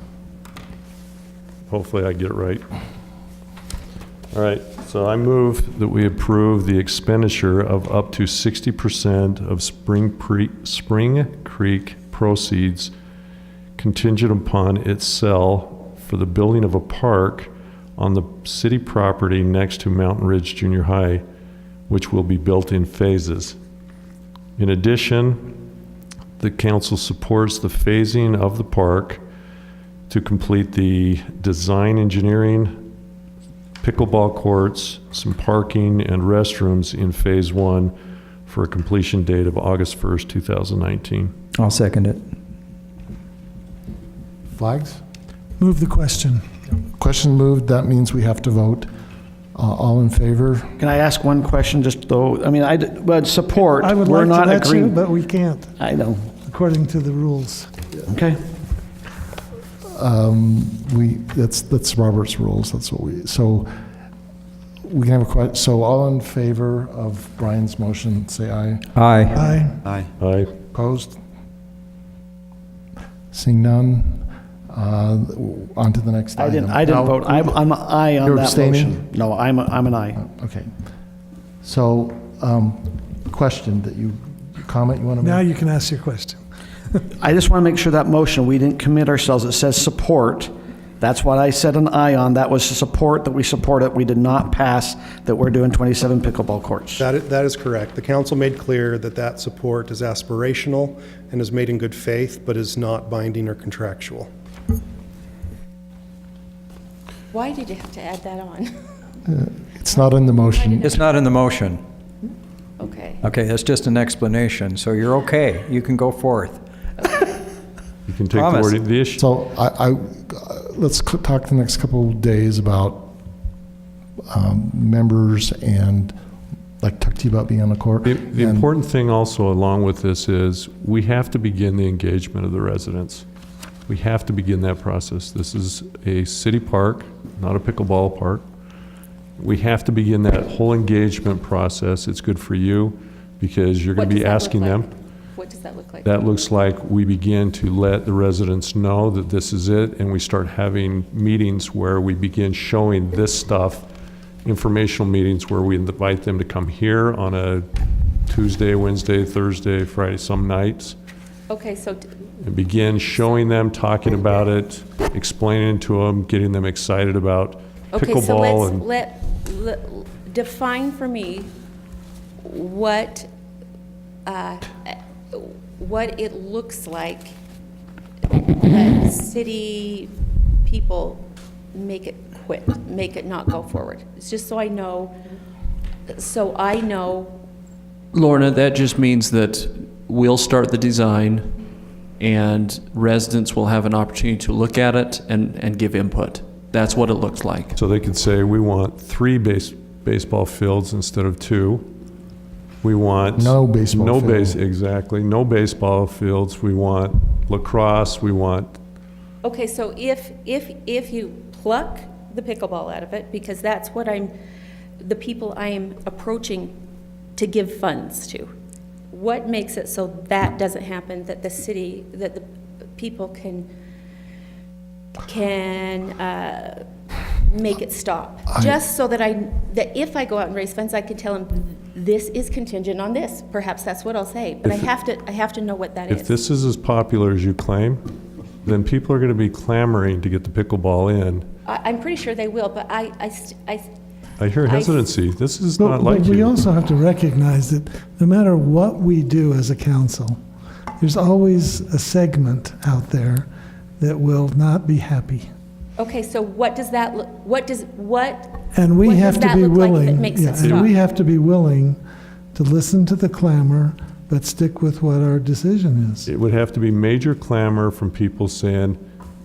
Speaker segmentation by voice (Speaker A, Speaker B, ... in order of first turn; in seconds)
Speaker A: 1.7-2.6, 4.3-12.9, 13.8-21.2, 21.9-23.6, 24.6-25.5, 26.4-29.2, 30.1-32.8, 33.8-38.0, 38.5-41.3, 70.2-70.5, 118.1-119.2, 128.0-133.3, 133.9-138.4, 139.4-144.9, 146.1-153.9, 154.4-157.7, 158.3-161.0, 162.4-168.8, 197.8-201.9, 202.8-208.8, 236.1-238.0, 238.6-241.5, 244.4-246.5, 266.3-269.0
Speaker B: 41.6-42.2, 69.0-69.3, 110.9-111.8, 113.2-116.6, 118.3-118.8
Speaker C: 44.5-45.0, 47.0-48.9, 49.5-50.8, 59.9-63.7, 64.8-69.8, 70.7-71.2, 73.3-77.6, 78.2-79.1, 80.2-80.7, 81.6-85.5, 109.2-111.0, 119.2-123.1, 124.3-126.1, 126.8-128.7, 203.4-204.6
Speaker D: 45.6-46.5, 53.5-55.7, 56.5-57.7, 69.3-69.8, 85.2-86.4, 245.8-250.4, 251.0-253.5, 254.0-255.5, 258.7-262.0, 262.5-266.3
Speaker E: 50.8-55.0, 55.8-56.3, 58.1-58.4, 76.4-80.2, 87.2-97.0
Speaker F: 97.0-104.3
Speaker G: 107.3-108.8, 110.0-111.1, 112.8-113.2, 143.9-146.1, 161.5-162.1, 167.9-171.5, 172.4-173.3, 174.3-177.3, 178.4-180.1, 180.6-181.2, 181.7-185.2, 186.1-187.3, 209.4-214.3, 215.0-216.7, 217.4-218.5, 219.1-222.4, 223.0-223.7, 225.2-226.8, 227.5-236.3, 241.7-243.9, 244.6-245.0, 256.0-260.9
Speaker H: 188.1-191.5, 192.2-197.8